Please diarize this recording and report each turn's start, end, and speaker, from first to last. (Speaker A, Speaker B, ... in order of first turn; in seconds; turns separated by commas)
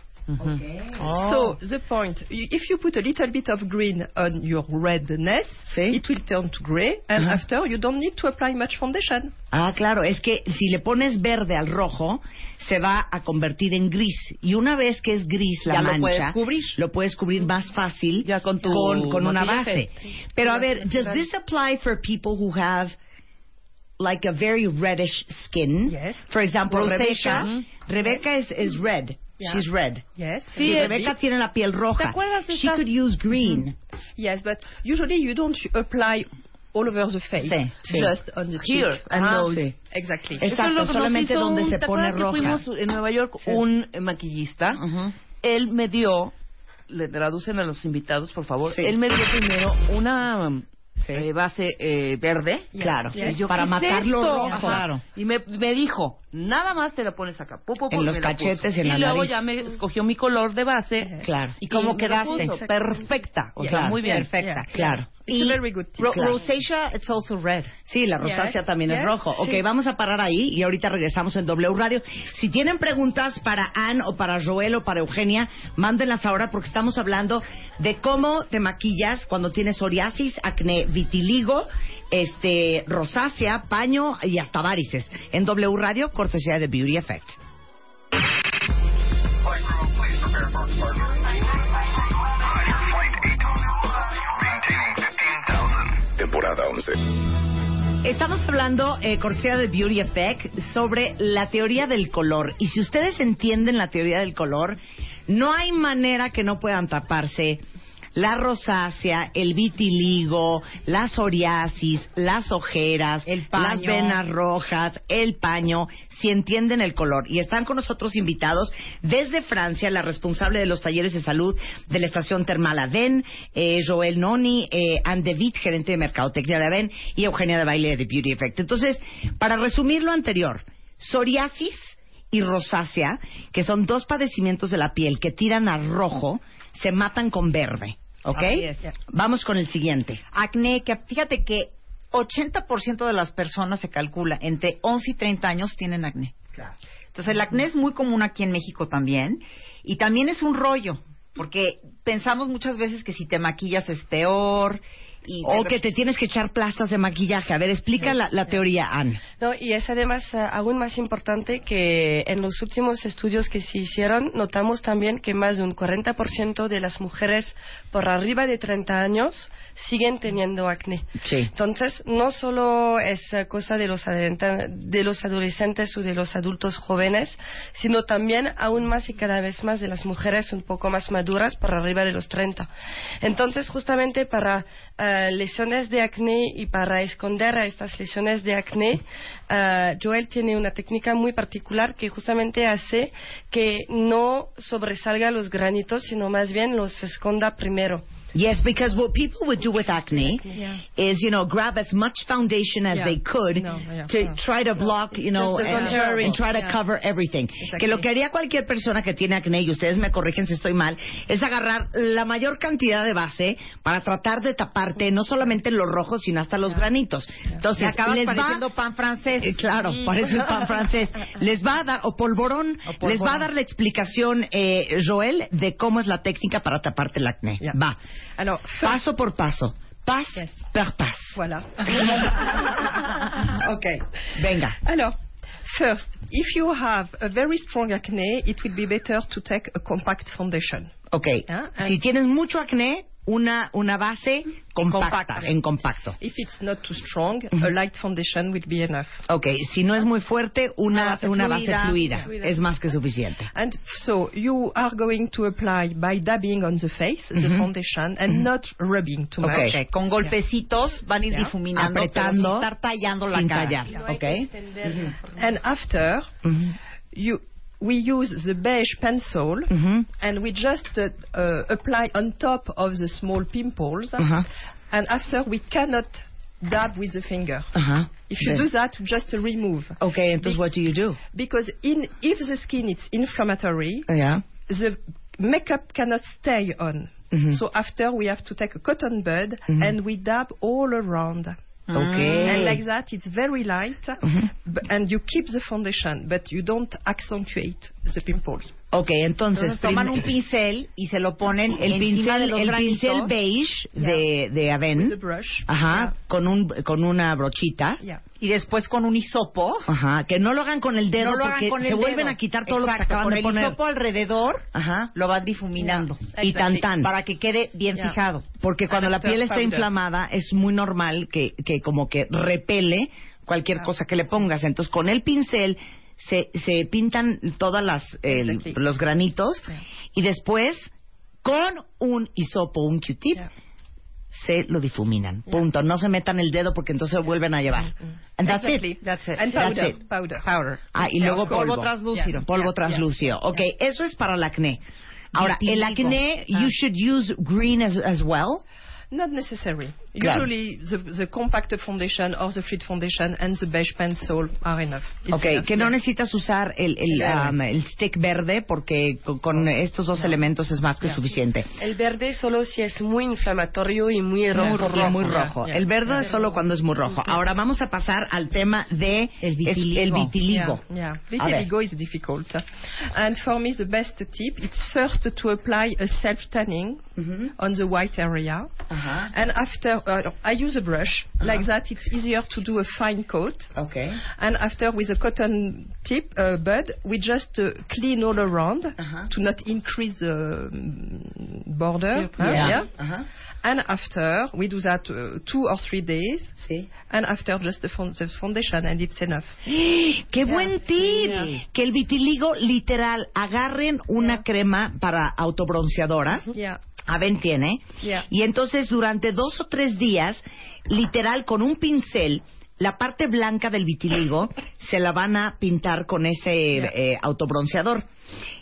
Speaker A: 0.4-1.1, Speaker B: 1.0-9.3, Speaker A: 5.7-6.0, Speaker A: 9.5-22.9, Speaker C: 15.7-16.7, Speaker D: 15.9-16.3, Speaker D: 18.2-19.9, Speaker B: 20.9-21.2, Speaker A: 24.0-30.0, Speaker B: 25.9-26.3, Speaker D: 26.8-27.6, Speaker B: 30.1-31.1, Speaker D: 30.5-31.1, Speaker A: 30.5-33.7, Speaker D: 32.0-32.8, Speaker B: 34.2-40.5, Speaker D: 38.6-39.7, Speaker A: 40.4-42.6, Speaker D: 40.4-44.8, Speaker C: 44.8-45.1, Speaker D: 45.4-46.3, Speaker D: 46.9-64.6, Speaker A: 48.6-48.9, Speaker B: 52.7-53.4, Speaker A: 52.8-54.9, Speaker C: 54.0-55.0, Speaker A: 57.9-59.4, Speaker A: 61.2-61.6, Speaker C: 61.6-62.7, Speaker E: 62.3-62.7, Speaker A: 63.6-65.2, Speaker C: 63.7-64.6, Speaker B: 64.4-66.2, Speaker C: 66.0-67.7, Speaker A: 66.1-66.4, Speaker A: 67.8-87.4, Speaker B: 68.2-69.3, Speaker F: 89.5-91.2, Speaker F: 92.7-93.2, Speaker F: 94.4-97.0, Speaker A: 98.0-107.6, Speaker A: 108.1-140.2, Speaker C: 113.2-114.2, Speaker C: 138.3-138.8, Speaker C: 140.3-155.8, Speaker A: 155.4-159.2, Speaker E: 159.4-182.7, Speaker A: 171.2-171.5, Speaker E: 183.2-198.0, Speaker A: 198.3-218.6, Speaker E: 200.1-200.5, Speaker B: 200.5-200.8, Speaker B: 202.9-204.4, Speaker B: 205.3-206.8, Speaker B: 207.6-208.0, Speaker C: 217.7-219.7, Speaker A: 219.4-228.0, Speaker C: 222.9-223.4, Speaker B: 228.4-229.0, Speaker A: 228.8-232.8, Speaker B: 231.3-232.3, Speaker A: 233.4-234.8, Speaker B: 234.8-235.1, Speaker B: 235.7-240.9, Speaker A: 241.1-246.2, Speaker B: 241.5-242.0, Speaker C: 244.8-245.4, Speaker B: 246.2-249.2, Speaker A: 249.3-253.5, Speaker C: 250.9-252.1, Speaker E: 252.2-252.5, Speaker B: 253.5-259.8, Speaker A: 257.3-257.7, Speaker A: 259.4-259.8, Speaker C: 259.4-263.8, Speaker A: 261.7-262.7, Speaker A: 263.3-265.1, Speaker E: 263.9-265.4, Speaker B: 265.4-266.3, Speaker A: 266.4-266.8, Speaker B: 267.1-277.8, Speaker A: 269.7-270.1, Speaker A: 274.2-274.4, Speaker A: 277.7-278.7, Speaker B: 278.3-280.6, Speaker A: 280.0-281.2, Speaker B: 281.3-284.1, Speaker A: 284.1-284.4, Speaker B: 284.7-291.6, Speaker A: 287.3-287.6, Speaker A: 289.7-289.9, Speaker C: 291.9-292.8, Speaker A: 291.9-292.8, Speaker B: 292.3-298.7, Speaker A: 298.9-300.3, Speaker C: 299.5-303.3, Speaker A: 301.8-308.0, Speaker B: 304.0-304.2, Speaker B: 304.9-306.1, Speaker C: 308.4-309.9, Speaker A: 309.9-313.8, Speaker C: 311.2-318.4, Speaker A: 314.7-315.1, Speaker B: 316.4-316.8, Speaker A: 316.4-317.1, Speaker A: 318.6-330.9, Speaker B: 318.9-319.8, Speaker B: 328.3-328.8, Speaker A: 331.4-333.5, Speaker A: 334.3-340.0, Speaker B: 338.4-340.5, Speaker C: 339.0-343.0, Speaker A: 340.9-344.8, Speaker B: 341.2-341.5, Speaker A: 345.3-348.6, Speaker C: 345.3-346.7, Speaker B: 349.1-355.9, Speaker A: 350.2-350.5, Speaker A: 355.3-361.7, Speaker B: 357.1-357.5, Speaker E: 361.8-365.3, Speaker A: 364.5-370.8, Speaker B: 364.6-366.3, Speaker C: 369.4-370.3, Speaker B: 370.5-378.7, Speaker A: 371.4-371.7, Speaker A: 377.2-377.5, Speaker A: 378.9-379.3, Speaker B: 379.3-383.7, Speaker A: 383.7-384.2, Speaker B: 384.2-392.9, Speaker A: 389.0-389.3, Speaker A: 392.4-393.3, Speaker B: 393.6-399.6, Speaker A: 396.6-396.9, Speaker A: 399.6-406.5, Speaker B: 400.4-401.5, Speaker B: 406.5-406.8, Speaker A: 407.1-418.1, Speaker B: 408.0-408.3